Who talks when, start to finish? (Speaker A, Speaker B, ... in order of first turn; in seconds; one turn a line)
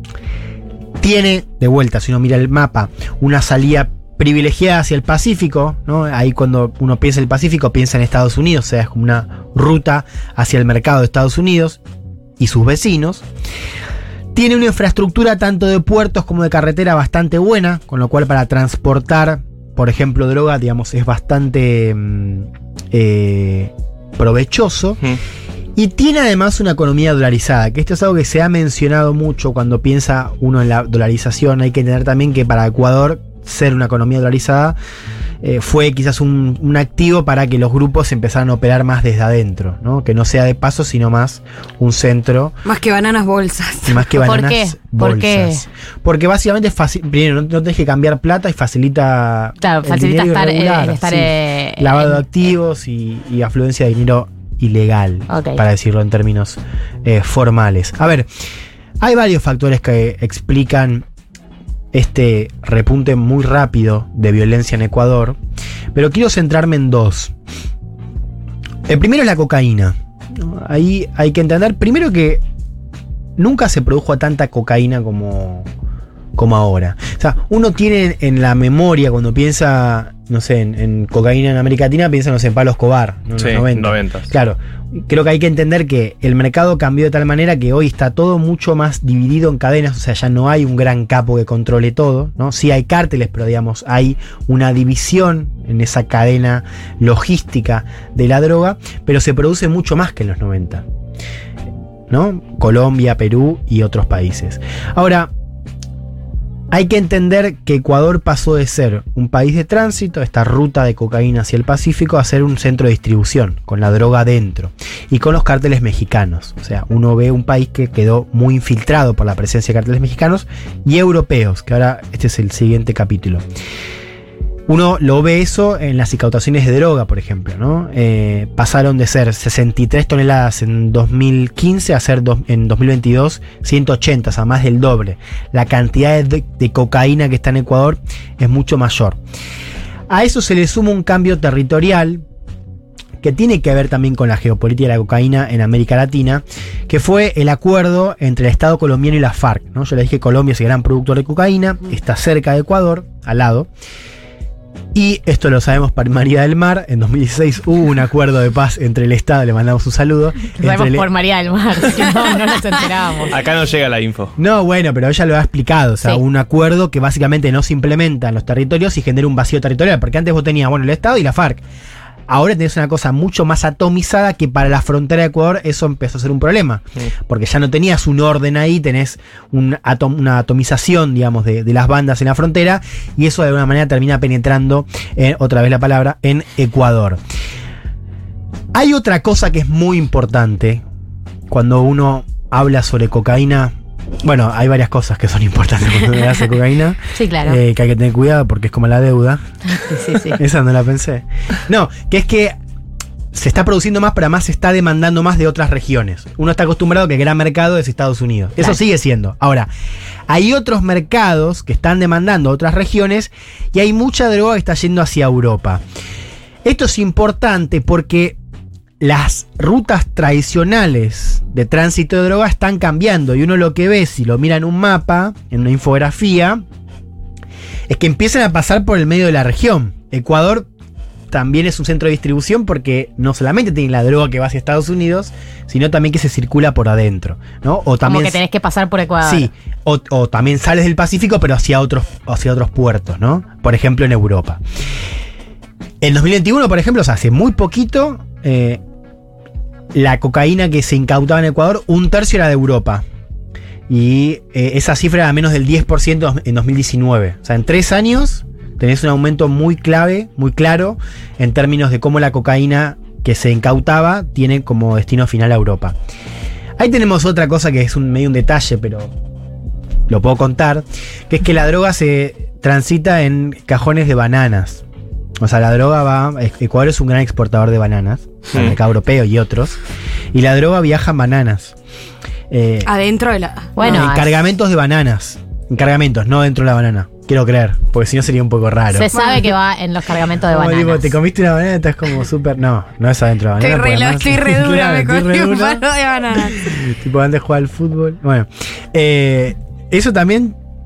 Speaker A: 1.0-11.8
Speaker A: 12.4-13.2
Speaker A: 14.3-25.0
Speaker A: 25.8-34.8
Speaker A: 35.4-42.6
Speaker B: 42.6-44.0
Speaker A: 43.9-58.3
Speaker C: 44.2-45.6
Speaker C: 49.6-52.2
Speaker C: 55.3-55.6
Speaker A: 59.0-61.0
Speaker A: 61.9-65.4
Speaker A: 65.9-67.3
Speaker A: 68.9-72.4
Speaker A: 73.4-75.7
Speaker A: 76.4-100.8
Speaker D: 83.4-84.3
Speaker A: 102.1-105.3
Speaker A: 106.7-123.4
Speaker A: 124.7-139.2
Speaker A: 140.1-142.2
Speaker A: 143.2-153.7
Speaker A: 154.9-161.1
Speaker C: 160.6-163.3
Speaker D: 163.3-164.3
Speaker A: 164.4-171.6
Speaker A: 172.3-187.2
Speaker A: 188.7-190.8
Speaker A: 191.5-199.4
Speaker C: 197.1-197.6
Speaker C: 199.7-200.4
Speaker A: 200.3-202.5
Speaker A: 203.3-209.7
Speaker A: 210.3-215.8
Speaker A: 216.7-218.4
Speaker A: 219.0-226.6
Speaker A: 227.9-230.7
Speaker A: 231.3-238.4
Speaker C: 238.1-239.5
Speaker A: 239.2-244.6
Speaker A: 246.0-248.8
Speaker A: 249.9-253.0
Speaker A: 253.9-265.9
Speaker A: 266.8-269.1
Speaker A: 270.1-274.8
Speaker A: 275.4-279.8
Speaker D: 278.5-278.8
Speaker A: 280.3-281.8
Speaker A: 282.5-282.9
Speaker B: 282.9-283.9
Speaker C: 283.8-284.5
Speaker A: 283.8-289.1
Speaker C: 288.9-291.2
Speaker B: 289.2-289.4
Speaker A: 290.5-295.8
Speaker B: 293.6-296.7
Speaker A: 296.4-300.6